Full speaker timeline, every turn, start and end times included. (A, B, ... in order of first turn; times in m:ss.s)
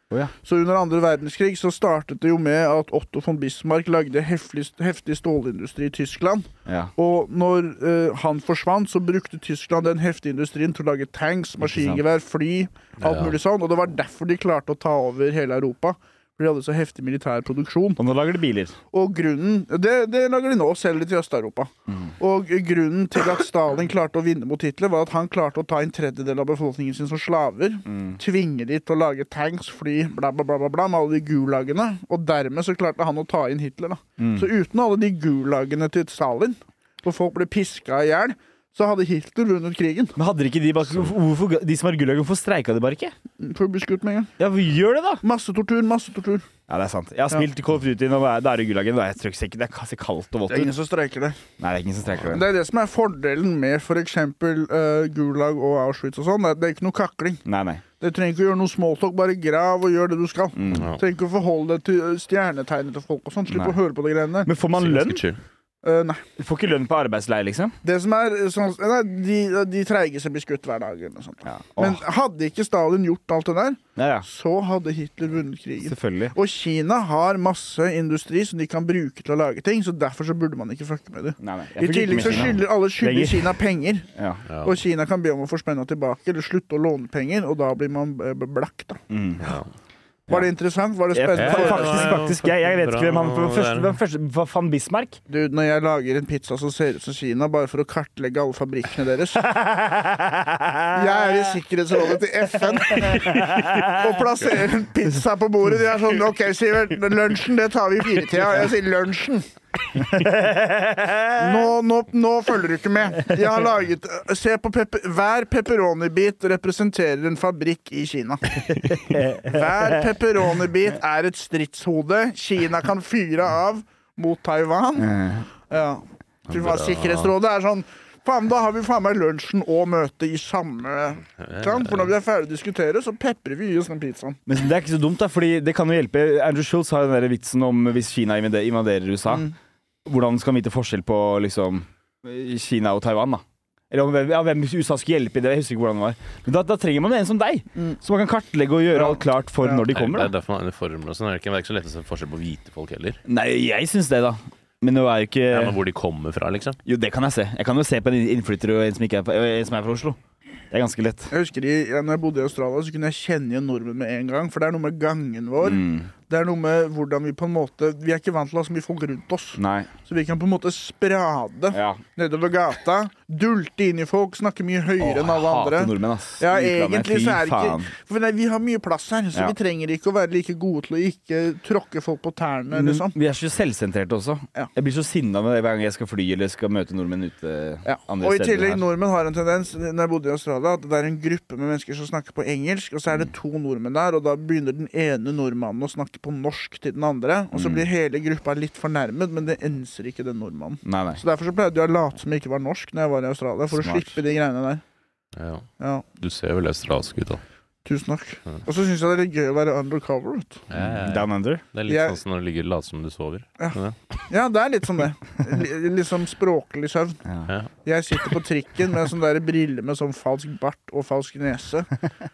0:00.4-0:18.0 A
0:06.6-0:06.9 B
0:11.6-0:12.0 B
0:13.0-0:13.4 C
0:18.0-0:18.8 B
0:18.9-0:40.1 A
0:27.9-0:28.2 B
0:34.2-0:34.5 B
0:40.2-0:43.1 B
0:43.4-0:44.3 A
0:44.4-0:45.2 B
0:45.2-0:46.4 A
0:46.7-0:50.7 B
0:50.5-0:51.4 A
0:51.6-0:52.4 B
0:52.2-0:57.4 A
0:57.4-0:57.8 B
0:58.0-1:04.5 A
1:00.5-1:00.9 B
1:00.7-1:01.0 C
1:03.5-1:03.8 B
1:04.4-1:05.2 B
1:04.8-1:05.4 C
1:05.8-1:06.2 A
1:06.4-1:07.7 B
1:07.8-1:24.1 A
1:11.4-1:12.0 B
1:14.0-1:14.3 B
1:15.8-1:16.3 B
1:21.4-1:23.5 B
1:24.1-1:24.4 B
1:24.5-1:24.8 C
1:24.6-1:29.0 A
1:29.1-1:29.6 B
1:29.4-1:29.7 C
1:30.3-1:32.2 A
1:31.1-1:35.2 B
1:31.3-1:34.0 C
1:35.3-1:39.5 A
1:39.4-1:41.0 B
1:40.9-1:49.4 A
1:43.0-1:43.9 B
1:50.0-1:51.5 B
1:51.4-1:58.4 A
1:58.8-1:59.7 B
1:59.4-2:05.1 A
2:05.0-2:05.4 B
2:05.7-2:14.4 A
2:06.5-2:07.3 C
2:11.4-2:12.1 C
2:14.5-2:19.5 B
2:20.0-2:30.3 B
2:28.9-2:29.8 A
2:29.9-2:33.2 C
2:33.2-2:35.8 B
2:35.5-2:36.8 C
2:36.8-2:40.2 B
2:40.7-2:41.3 B
2:41.3-3:03.1 A
2:45.6-2:46.1 B
2:49.6-2:49.9 B
2:51.7-2:52.0 B
2:55.0-2:57.9 B
3:02.7-3:08.8 B
3:07.8-3:24.8 A
3:17.5-3:17.8 B
3:20.8-3:21.2 B
3:23.7-3:24.2 B
3:25.3-3:25.7 C
3:25.8-3:26.0 A
3:26.2-3:27.4 C
3:27.8-3:30.6 A
3:30.7-3:34.0 C
3:30.8-3:31.6 B
3:31.9-3:32.2 A
3:34.3-3:37.2 A
3:37.8-3:41.9 A